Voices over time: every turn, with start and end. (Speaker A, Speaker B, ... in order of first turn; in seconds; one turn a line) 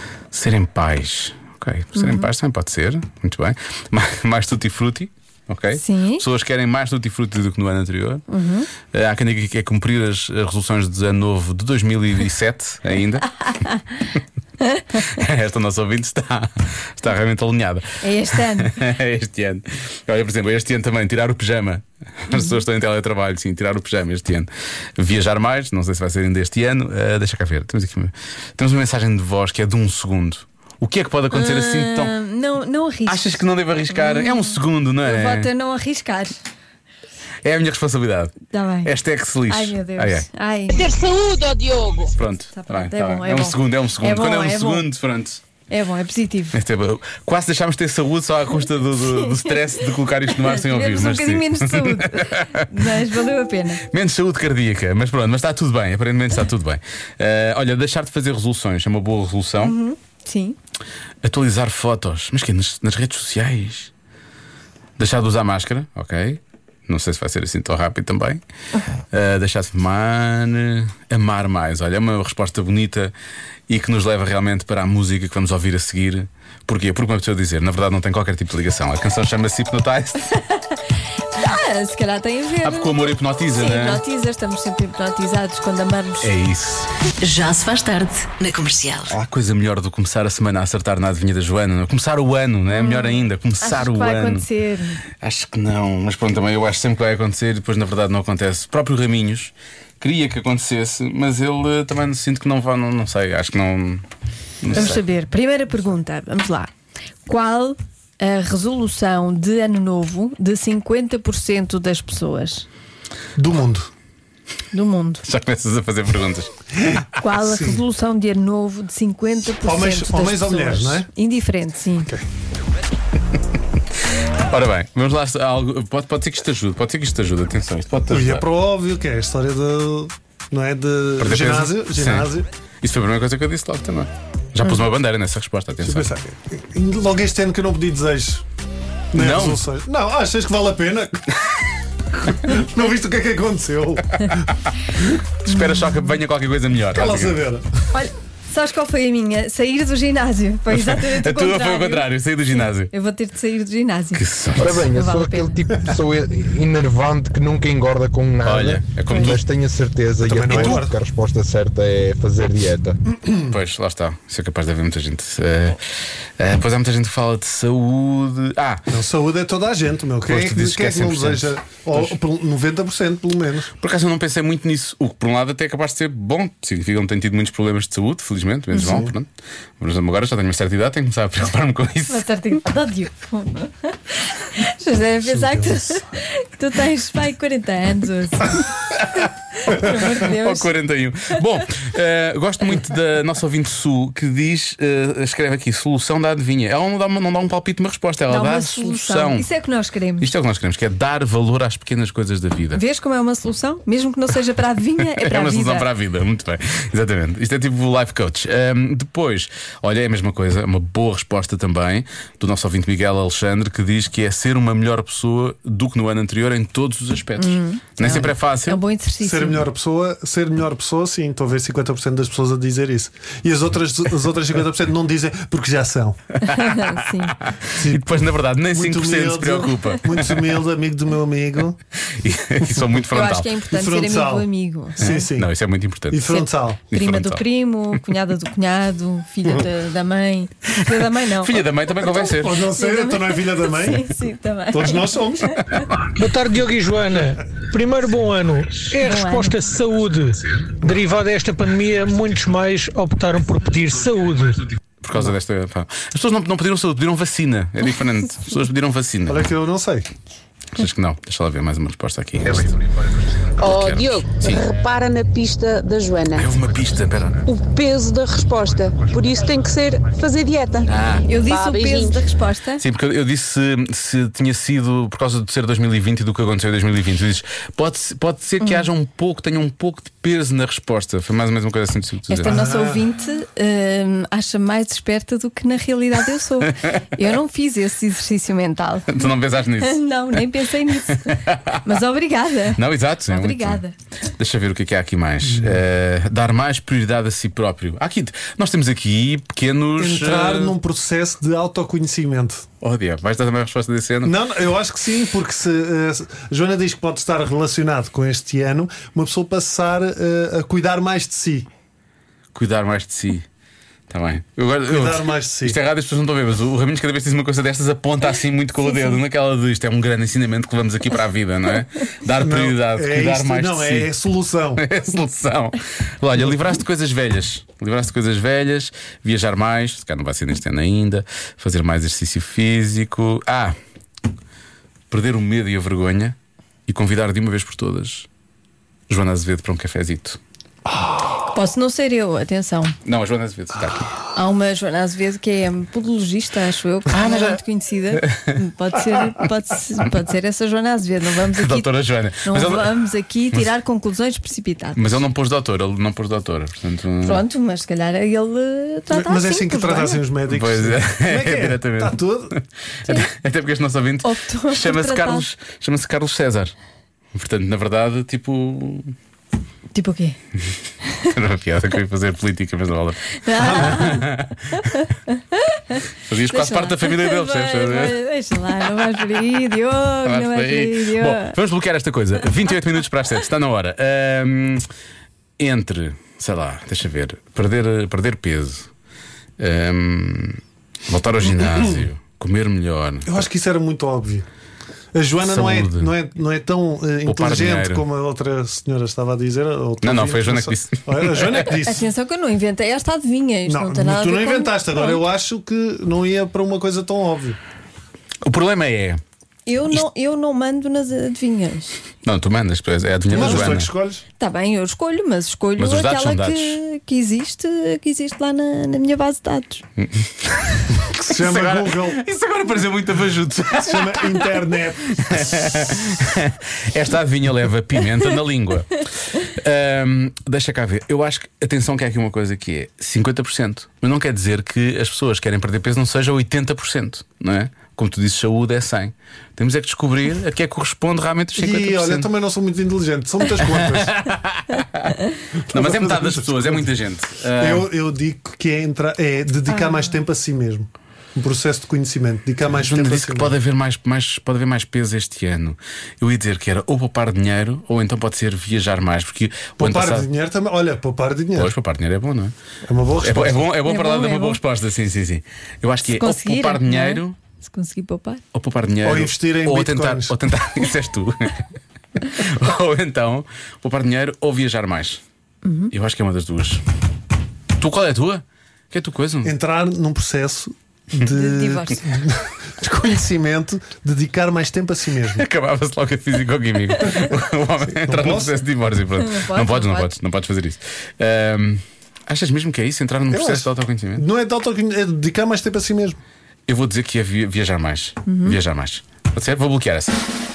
Speaker A: 0.3-8.2
Speaker B: 2.0-2.3
Speaker B: 5.8-6.2
Speaker B: 8.3-8.7
Speaker A: 8.8-13.3
Speaker B: 13.5-13.8
Speaker B: 14.6-15.1
Speaker A: 15.0-32.1
Speaker B: 18.0-18.8
Speaker B: 22.3-22.6
Speaker B: 31.3-33.4
Speaker A: 33.1-35.5
Speaker B: 33.9-36.4
Speaker A: 37.4-40.3
Speaker B: 38.5-38.9
Speaker B: 39.5-40.8
Speaker C: 40.8-42.1
Speaker A: 42.1-45.4
Speaker B: 42.5-44.9
Speaker B: 45.7-46.6
Speaker A: 46.5-52.9
Speaker B: 49.1-49.5
Speaker B: 50.4-53.8
Speaker A: 53.8-59.8
Speaker B: 59.6-60.6
Speaker A: 61.2-63.9
Speaker A: 65.0-68.4
Speaker A: 69.1-73.1
Speaker A: 73.7-80.3
Speaker B: 81.3-83.0
Speaker A: 82.6-84.0
Speaker B: 83.5-86.3
Speaker A: 86.2-86.9
Speaker D: 87.2-89.2
Speaker A: 89.1-94.5
Speaker B: 92.7-95.0
Speaker A: 95.2-104.0
Speaker A: 104.6-105.0
Speaker B: 104.7-106.7
Speaker B: 107.3-112.7
Speaker E: 113.4-113.9
Speaker B: 114.7-115.2
Speaker A: 115.2-116.5
Speaker E: 116.8-117.8
Speaker B: 117.2-122.1
Speaker E: 119.6-121.1
Speaker A: 124.5-128.4
Speaker E: 128.1-132.5
Speaker A: 131.2-132.3
Speaker A: 132.8-136.1
Speaker E: 135.8-138.4
Speaker E: 139.1-141.3
Speaker A: 139.2-139.6
Speaker E: 142.2-145.2
Speaker A: 145.4-147.4
Speaker B: 145.5-146.1
Speaker E: 146.9-147.7
Speaker B: 147.9-155.6
Speaker A: 150.7-152.9
Speaker A: 154.2-154.9
Speaker F: 154.6-163.0
Speaker A: 158.4-159.4
Speaker E: 160.2-160.9
Speaker A: 163.5-165.8
Speaker A: 166.4-168.8
Speaker E: 168.9-173.7
Speaker A: 170.2-172.2
Speaker A: 173.8-179.3
Speaker E: 178.8-179.1
Speaker A: 179.8-182.3
Speaker B: 182.1-188.7
Speaker E: 185.3-185.9
Speaker B: 189.6-190.7
Speaker A: 189.8-199.5
Speaker B: 198.3-200.3
Speaker A: 200.2-202.8
Speaker B: 202.8-205.9
Speaker A: 205.2-218.8
Speaker B: 217.4-219.7
Speaker E: 219.2-226.2
Speaker B: 226.4-227.4
Speaker A: 226.5-226.9
Speaker A: 227.5-230.6
Speaker E: 227.7-231.8
Speaker A: 232.2-233.5
Speaker B: 233.1-235.3
Speaker E: 233.7-234.5
Speaker E: 235.0-235.5
Speaker A: 235.0-237.4
Speaker E: 236.1-236.8
Speaker B: 236.3-241.6
Speaker A: 241.4-242.7
Speaker E: 242.0-244.1
Speaker B: 242.7-245.9
Speaker E: 244.7-245.6
Speaker G: 246.2-254.7
Speaker B: 249.0-249.6
Speaker A: 255.0-259.5
Speaker E: 259.3-260.1
Speaker A: 260.8-262.9
Speaker A: 263.6-264.6
Speaker C: 263.6-266.5
Speaker A: 266.3-267.4
Speaker C: 267.5-270.9
Speaker A: 270.9-271.3
Speaker B: 271.3-272.8
Speaker C: 271.5-272.2
Speaker A: 272.8-282.6
Speaker B: 278.6-278.9
Speaker B: 282.3-293.9
Speaker E: 282.5-283.0
Speaker A: 286.7-287.0
Speaker A: 289.1-290.4
Speaker A: 291.1-291.8
Speaker A: 292.8-293.8
Speaker A: 294.4-300.8
Speaker E: 300.0-302.6
Speaker A: 302.8-304.4
Speaker E: 304.2-311.7
Speaker A: 312.5-313.5
Speaker A: 314.1-324.1
Speaker E: 314.9-315.8
Speaker E: 322.4-324.8
Speaker A: 324.8-333.8
Speaker A: 335.1-336.4
Speaker A: 336.9-338.3
Speaker A: 339.1-340.4
Speaker B: 341.5-343.0
Speaker A: 343.1-344.1
Speaker B: 344.3-351.9
Speaker A: 347.1-347.6
Speaker A: 348.2-348.6
Speaker A: 351.6-353.0
Speaker B: 352.4-355.0
Speaker A: 355.0-357.4
Speaker B: 357.2-360.2
Speaker E: 359.1-362.5
Speaker A: 360.5-362.2
Speaker A: 363.1-366.7
Speaker B: 364.2-365.4
Speaker A: 367.3-369.1
Speaker B: 369.9-370.4
Speaker B: 371.0-371.3
Speaker A: 371.3-374.8
Speaker B: 373.4-381.6
Speaker A: 376.3-378.2
Speaker A: 380.2-384.9
Speaker A: 385.6-388.9
Speaker A: 389.6-393.3
Speaker E: 391.6-392.0
Speaker E: 393.3-394.5
Speaker E: 395.1-402.1
Speaker A: 395.4-396.1
Speaker A: 397.2-398.0
Speaker A: 400.0-401.7
Speaker B: 401.7-405.2
Speaker E: 403.7-407.6
Speaker A: 408.4-409.2
Speaker B: 409.7-412.0
Speaker A: 412.2-413.9
Speaker E: 413.3-414.2
Speaker B: 413.4-413.7
Speaker B: 414.4-419.8
Speaker A: 415.8-416.8
Speaker A: 420.0-424.5
Speaker E: 421.1-422.2
Speaker E: 423.8-425.7
Speaker A: 425.2-442.3
Speaker E: 441.6-444.2
Speaker A: 443.6-445.1
Speaker E: 445.7-446.9
Speaker A: 445.7-447.9
Speaker E: 447.6-453.5
Speaker B: 449.7-450.1
Speaker A: 452.7-460.3
Speaker E: 459.8-461.7
Speaker A: 461.6-462.5
Speaker E: 462.9-463.7
Speaker A: 463.2-467.4
Speaker B: 463.9-464.6
Speaker B: 466.1-468.4
Speaker A: 468.5-471.6
Speaker E: 469.0-470.3
Speaker A: 472.3-475.2
Speaker B: 475.6-475.9
Speaker A: 475.9-476.8
Speaker A: 477.8-479.6
Speaker E: 479.4-485.4
Speaker B: 481.2-482.0
Speaker A: 485.4-494.3
Speaker E: 487.9-488.6
Speaker B: 489.2-490.1
Speaker E: 493.3-496.2
Speaker A: 496.7-500.2
Speaker B: 498.3-498.6